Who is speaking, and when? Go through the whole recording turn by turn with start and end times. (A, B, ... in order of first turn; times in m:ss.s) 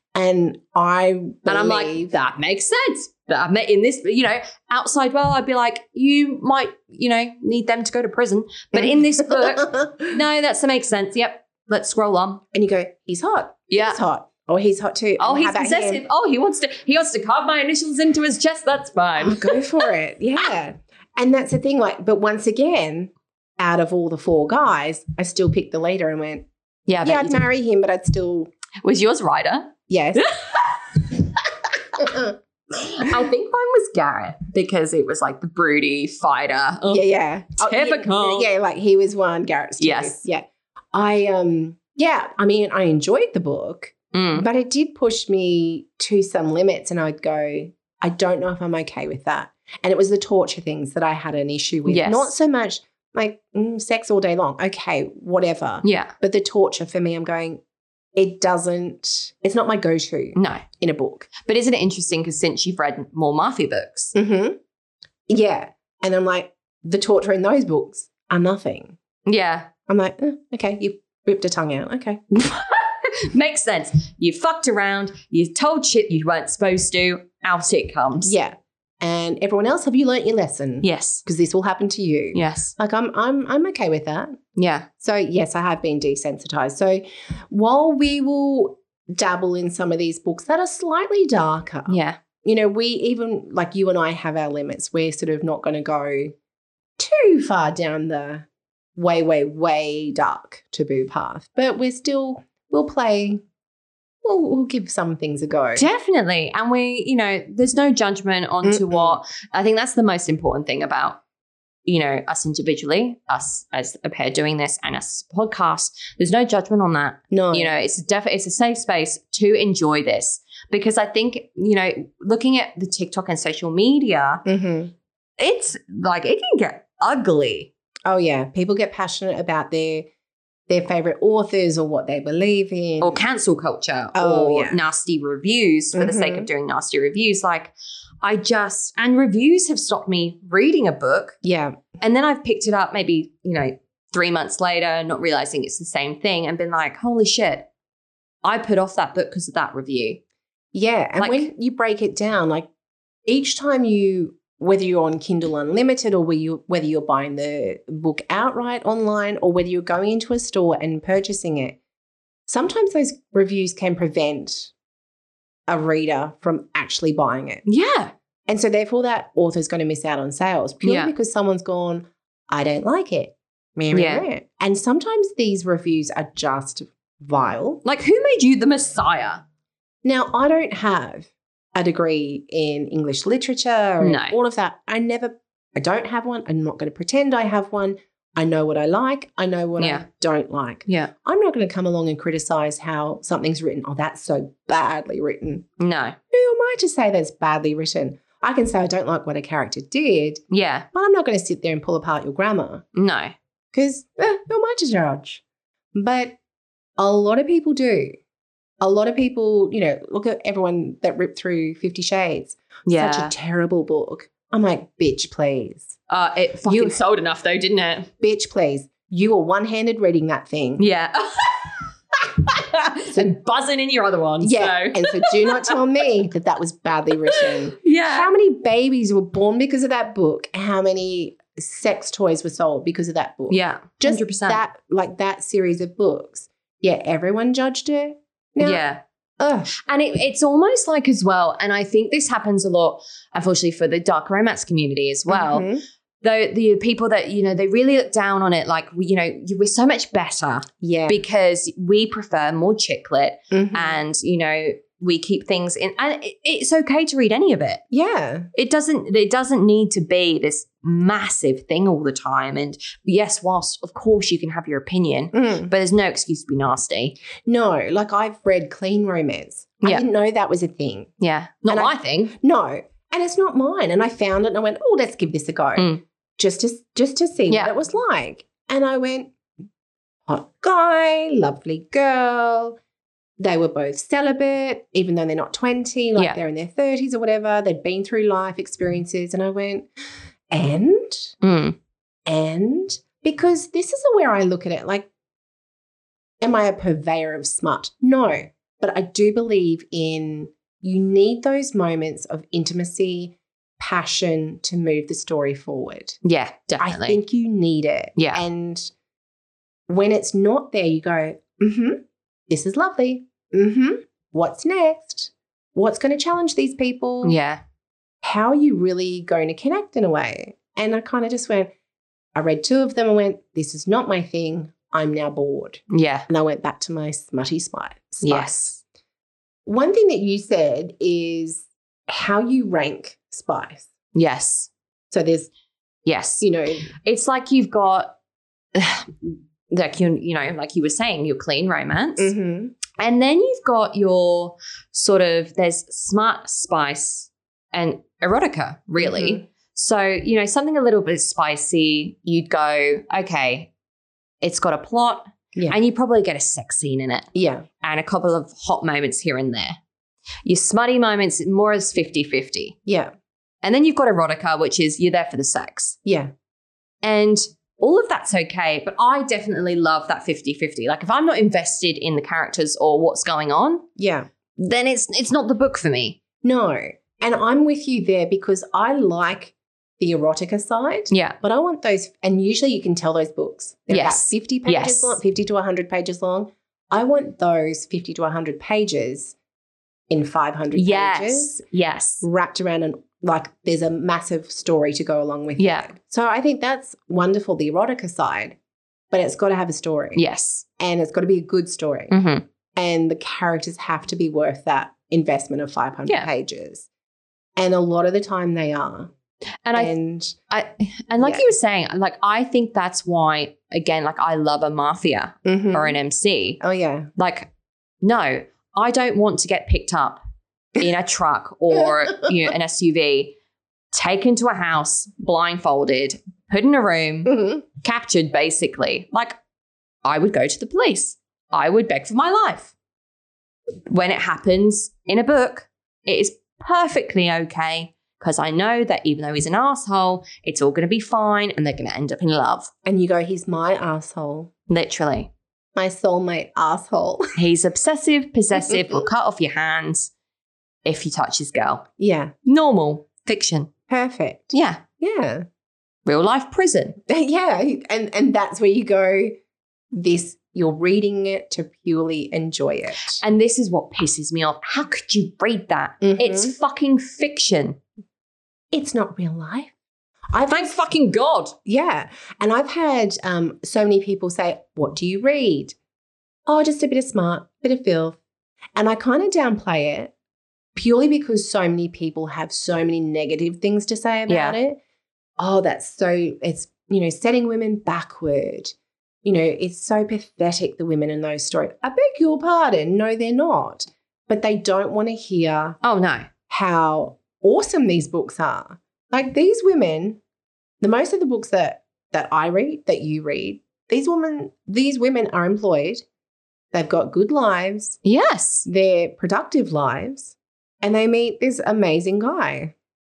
0:00.1-0:02.1 A
0:01.5-0:12.4 B
0:08.7-0:10.1 A
0:12.5-0:16.0 A
0:13.7-0:14.0 B
0:15.2-0:19.6 B
0:19.2-0:26.5 A
0:26.9-0:27.4 B
0:27.0-0:28.5 A
0:28.8-0:31.0 B
0:29.9-0:30.4 A
0:32.0-0:32.4 A
0:32.7-0:37.0 B
0:36.9-0:57.6 A
0:37.6-0:38.5 B
0:39.8-0:40.2 B
0:44.1-0:44.5 B
0:51.9-0:52.3 B
0:55.8-0:56.1 B
0:58.2-1:01.3 A
1:00.4-1:00.6 B
1:01.4-1:04.1 B
1:04.2-1:04.6 A
1:05.3-1:09.0 A
1:09.3-1:09.7 B
1:09.9-1:12.2 A
1:12.3-1:18.3 B
1:18.2-1:24.4 A
1:20.8-1:21.2 B
1:22.3-1:22.7 B
1:24.6-1:24.9 B
1:25.0-1:36.4 A
1:31.9-1:32.2 B
1:37.0-1:43.4 A
1:44.2-1:45.9 A
1:45.8-1:51.2 B
1:48.6-1:49.2 A
1:51.9-2:04.4 B
1:57.3-1:57.7 A
2:04.5-2:04.9 A
2:05.4-2:07.7 B
2:08.1-2:10.1 A
2:10.7-2:13.2 A
2:13.0-2:21.4 B
2:14.2-2:14.8 A
2:15.9-2:16.5 A
2:21.4-2:21.8 A
2:22.0-2:27.7 B
2:28.4-2:30.2 B
2:30.7-2:32.7 A
2:31.2-2:31.5 B
2:33.3-2:41.8 A
2:42.5-2:44.7 A
2:45.7-2:47.6 A
2:47.7-2:48.1 B
2:48.5-2:57.8 A
2:50.8-2:51.1 B
2:53.9-2:54.3 B
2:57.8-2:59.4 B
3:00.0-3:15.7 A
3:04.0-3:04.4 B
3:09.8-3:10.0 B
3:15.8-3:16.2 B
3:16.3-3:22.8 A
3:20.5-3:20.9 B
3:23.0-3:23.3 B
3:23.7-3:25.4 A
3:25.9-3:26.4 A
3:27.0-3:28.2 A
3:28.8-3:36.0 A
3:32.9-3:33.3 B
3:36.1-3:38.1 B
3:36.7-3:37.0 A
3:38.2-3:40.8 A
3:40.8-3:41.9 B
3:42.4-3:45.8 B
3:44.4-3:58.8 A
3:47.3-3:48.3 B
3:53.5-3:54.6 B
3:58.6-3:59.0 B
3:59.4-3:59.7 A
3:59.7-4:05.7 B
4:05.3-4:05.8 A
4:06.2-4:17.8 B
4:10.8-4:11.2 A
4:13.5-4:14.0 A
4:17.9-4:18.5 A
4:18.5-4:27.2 B
4:25.3-4:25.7 A
4:27.5-4:31.1 A
4:31.2-4:32.3 B
4:31.7-4:39.3 A
4:35.8-4:36.0 B
4:40.3-4:42.8 A
4:43.4-4:49.9 A
4:50.5-4:51.4 A
4:51.4-4:51.8 B
4:52.3-4:55.1 A
4:56.4-5:06.2 A
5:06.2-5:07.2 B
5:06.8-5:08.9 A
5:08.2-5:08.4 B
5:09.9-5:17.4 A
5:17.2-5:17.6 B
5:18.2-5:21.7 A
5:22.4-5:28.8 A
5:25.9-5:26.3 B
5:28.2-5:28.8 B
5:29.7-5:33.9 A
5:34.2-5:34.7 B
5:35.1-5:35.5 A
5:36.1-5:38.2 B
5:36.4-5:36.9 A
5:38.7-5:42.3 B
5:42.2-5:42.8 A
5:43.0-5:53.7 B
5:49.0-5:49.4 A
5:54.4-5:57.3 B
5:57.4-5:57.7 A
5:57.8-5:59.8 B
6:00.4-6:02.8 B
6:02.9-6:03.1 A
6:03.6-6:06.0 B
6:06.0-6:06.3 A
6:07.0-6:13.9 B
6:14.0-6:14.3 A
6:14.6-6:16.2 B
6:16.4-6:29.4 A
6:21.1-6:21.4 B
6:23.9-6:25.2 B
6:30.1-6:31.6 A
6:30.7-6:32.2 B
6:32.2-6:38.6 A
6:35.6-6:35.9 B
6:39.1-6:40.2 A
6:40.2-6:40.7 B
6:40.8-6:42.2 A
6:42.1-6:42.4 B
6:42.7-6:46.9 A
6:47.6-6:49.1 A
6:49.6-6:49.9 B
6:49.8-6:50.4 A
6:50.5-6:56.6 B
6:51.2-6:51.5 A
6:55.4-6:56.0 A
6:56.6-6:57.1 A
6:57.2-6:57.5 B
6:58.0-7:00.2 B
7:00.8-7:03.4 B
7:03.9-7:09.4 B
7:07.3-7:07.6 A
7:10.0-7:12.7 B
7:13.9-7:22.7 B
7:22.8-7:24.5 A
7:24.7-7:25.3 B
7:25.8-7:27.3 A
7:27.4-7:30.1 B
7:28.6-7:29.0 A
7:30.8-7:31.9 B
7:32.0-7:32.3 A
7:32.5-7:33.7 B
7:33.9-7:35.4 A
7:34.5-7:34.8 B
7:36.1-7:37.0 B
7:37.1-7:39.4 A
7:39.9-7:43.2 A
7:43.2-7:47.8 B
7:46.0-7:46.5 A
7:48.7-7:49.7 A
7:50.3-7:50.8 A
7:50.5-7:51.6 B
7:51.7-7:55.8 A
7:56.5-7:58.2 A
7:58.8-8:00.1 A
8:00.8-8:04.8 A
8:04.3-8:04.6 B
8:05.4-8:15.8 A
8:15.8-8:16.3 B
8:16.5-8:20.2 A
8:20.8-8:26.0 A
8:26.7-8:28.0 A
8:28.0-8:28.7 B
8:28.6-8:32.7 A